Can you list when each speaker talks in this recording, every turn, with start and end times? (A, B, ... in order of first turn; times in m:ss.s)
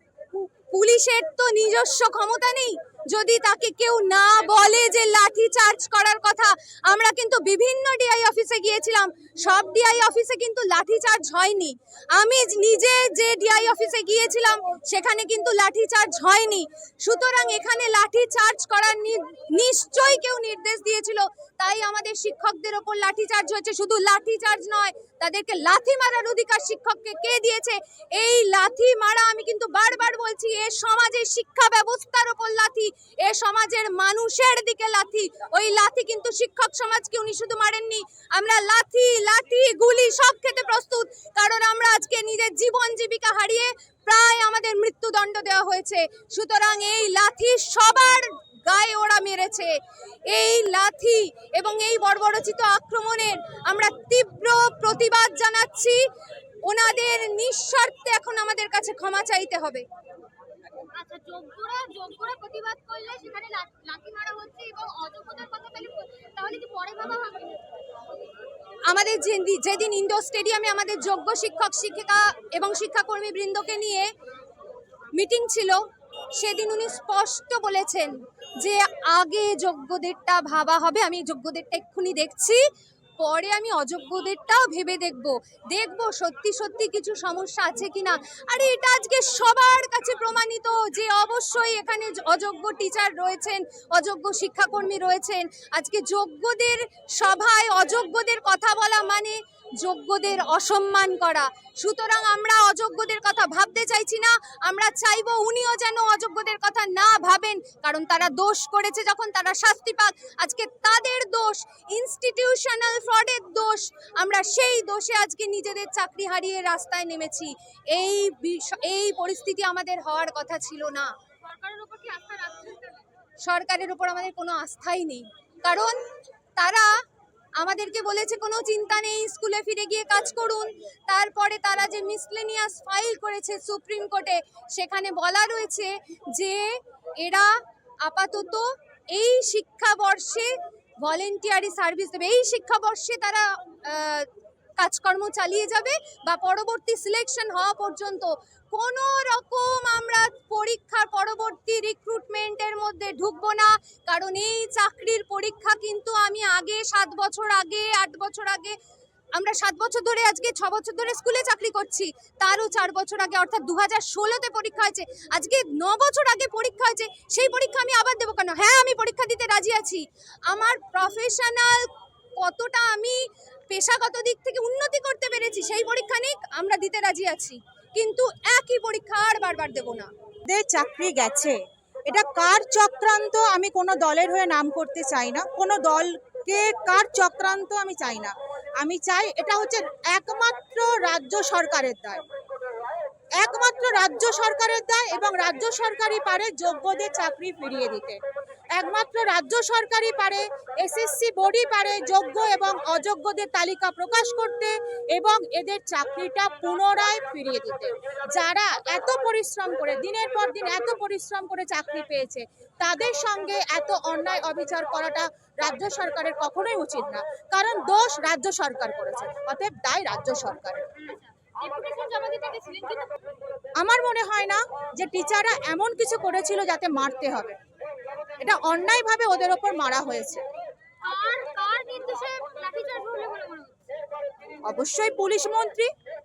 0:00.3-0:49.7 A
0:50.3-0:56.0 A
0:56.6-0:59.8 A
1:00.9-1:07.6 B
1:08.9-1:14.1 A
1:15.1-1:15.8 A
1:16.4-1:22.6 A
1:23.2-2:01.1 A
2:01.4-2:03.0 B
2:03.4-2:06.0 A
2:06.6-2:06.9 A
2:07.6-2:38.7 A
2:39.3-3:00.1 A
3:00.5-3:12.2 C
3:13.4-3:18.2 C
3:18.7-3:40.8 C
3:41.1-3:43.2 B
3:43.8-3:47.6 C
3:48.4-3:50.4 C
3:51.0-3:53.9 B
3:54.6-3:55.9 C